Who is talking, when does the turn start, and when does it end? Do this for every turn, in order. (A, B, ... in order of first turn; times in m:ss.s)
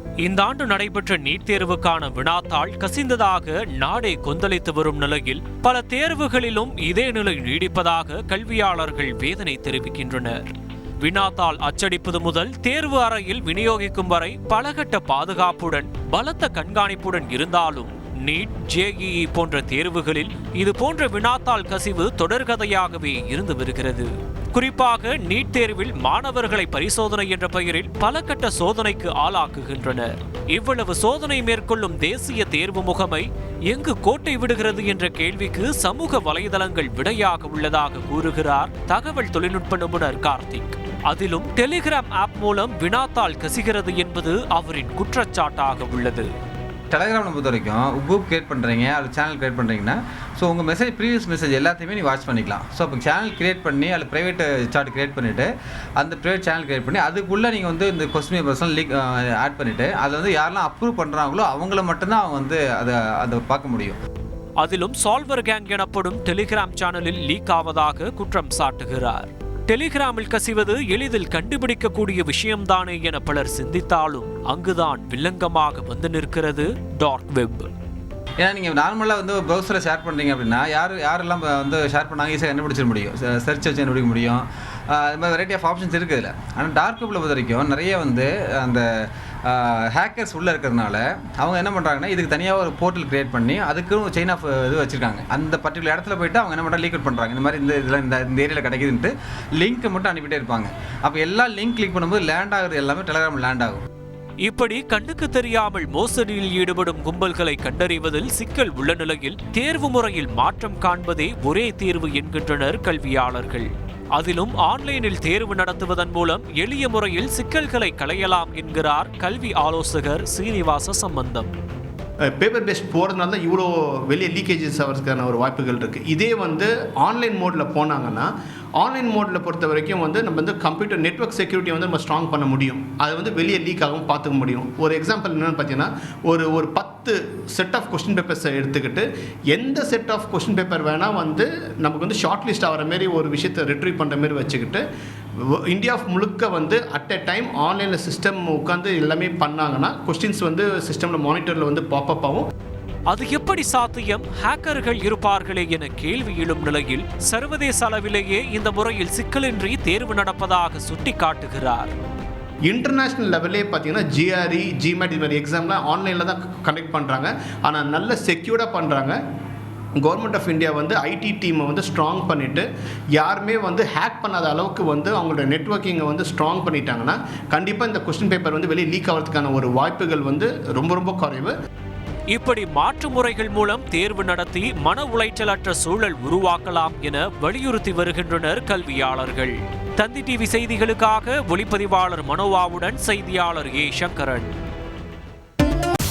0:00.2-0:46.3 A
0:46.9-1:04.0 B
1:04.6-1:17.7 A
1:18.4-1:28.8 B
1:29.4-1:43.8 B
1:44.4-2:01.5 A
2:02.3-2:24.8 C
2:25.7-2:32.4 C
2:33.1-2:41.9 A
2:42.7-2:49.2 C
2:50.0-3:01.5 C
3:02.3-3:14.5 A